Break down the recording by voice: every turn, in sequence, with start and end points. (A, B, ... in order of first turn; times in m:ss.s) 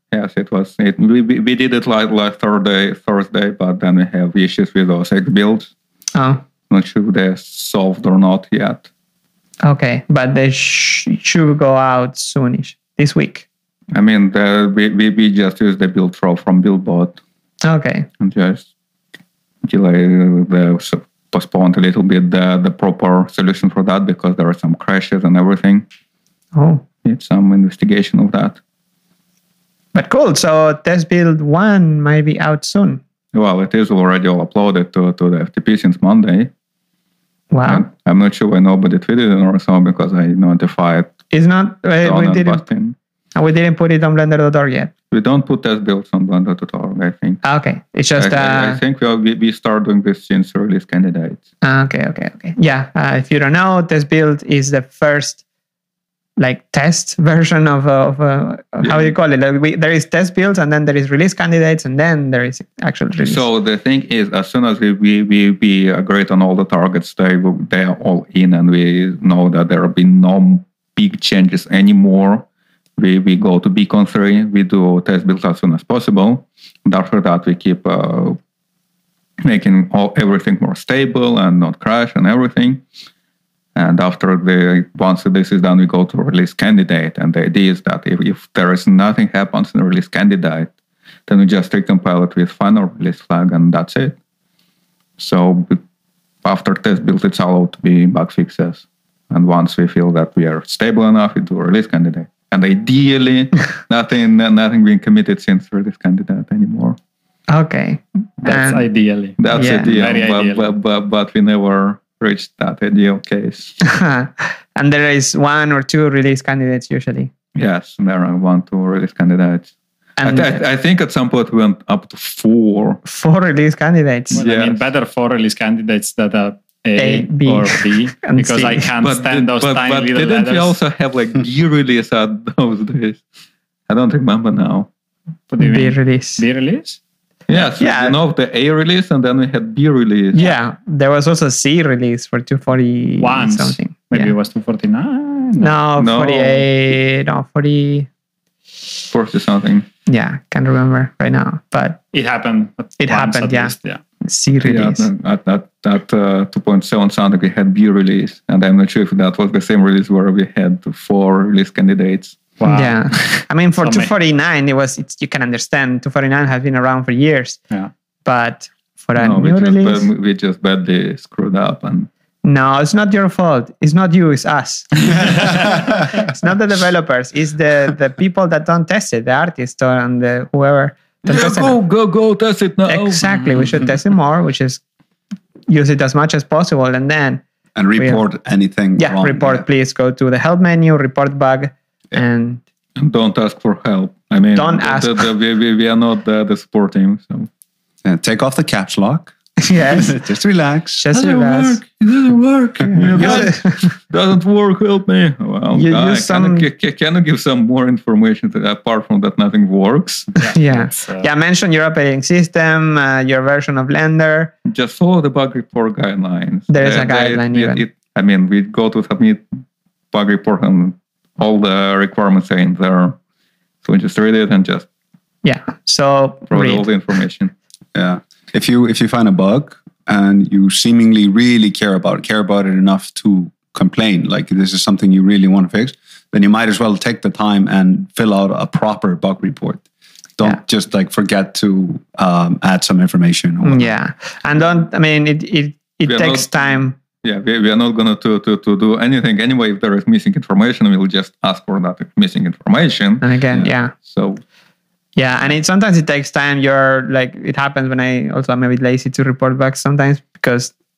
0:00.1-0:05.7 A
0:06.1-0:06.4 B
0:06.7-0:08.9 A
0:09.6-0:13.5 B
0:13.9-0:17.2 A
0:17.6-0:18.1 B
0:18.2-0:18.7 A
0:19.6-0:25.8 A
0:26.5-0:26.8 B
0:27.0-0:28.6 A
0:29.9-0:33.0 B
0:33.3-0:36.5 A
0:37.5-0:37.8 B
0:37.7-0:41.2 A
0:41.3-0:42.6 B
0:42.0-0:43.0 A
0:43.4-0:44.9 B
0:45.1-0:47.4 A
0:47.4-0:48.8 B
0:48.2-0:51.4 A
0:51.6-0:55.4 B
0:56.4-1:03.4 B
0:58.8-0:59.1 A
1:03.2-1:12.5 A
1:13.0-1:18.4 A
1:19.4-1:22.8 A
1:23.8-1:30.7 A
1:31.3-1:34.2 A
1:35.2-1:35.8 A
1:36.4-1:47.0 A
1:47.5-1:48.8 B
1:48.4-1:50.7 C
1:49.4-1:53.8 A
1:49.5-1:49.9 B
1:53.8-1:57.3 B
1:57.5-1:59.7 A
2:00.2-2:00.6 B
2:00.2-2:03.0 A
2:03.0-2:04.4 B
2:04.3-2:10.8 C
2:04.3-2:04.8 A
2:07.0-2:08.9 B
2:09.0-2:13.2 A
2:13.9-2:14.9 A
2:15.5-2:17.0 C
2:15.6-2:16.4 B
2:17.5-2:20.4 A
2:17.8-2:18.2 B
2:20.3-2:24.3 B
2:23.2-2:25.8 C
2:25.6-2:28.1 B
2:26.0-2:26.7 A
2:29.1-2:29.8 A
2:30.1-2:32.0 B
2:32.1-2:34.0 C
2:33.0-2:35.1 B
2:34.6-2:42.4 A
2:42.6-2:44.1 C
2:42.6-2:47.6 B
2:48.2-2:50.1 B
2:49.2-2:52.1 A
2:52.4-3:01.8 B
3:01.2-3:03.9 A
3:02.9-3:04.8 B
3:05.7-3:07.4 B
3:07.8-3:09.6 D
3:08.0-3:08.2 B
3:09.0-3:12.6 B
3:13.0-3:17.5 A
3:14.5-3:15.3 B
3:18.0-3:21.0 D
3:19.6-3:20.2 B
3:21.0-3:21.8 B
3:21.1-3:30.3 A
3:22.8-3:23.5 D
3:23.2-3:23.9 B
3:25.7-3:26.7 B
3:30.4-3:31.3 C
3:30.4-3:34.5 B
3:34.7-3:39.5 A
3:36.7-3:37.8 B
3:40.1-3:43.2 A
3:43.8-3:44.8 A
3:45.4-3:46.9 B
3:46.5-3:47.5 A
3:48.0-3:59.8 D
4:00.4-4:03.9 D
4:03.6-4:07.0 B
4:06.0-4:13.3 A
4:13.2-4:13.9 B
4:13.9-4:14.4 A
4:15.2-4:20.7 B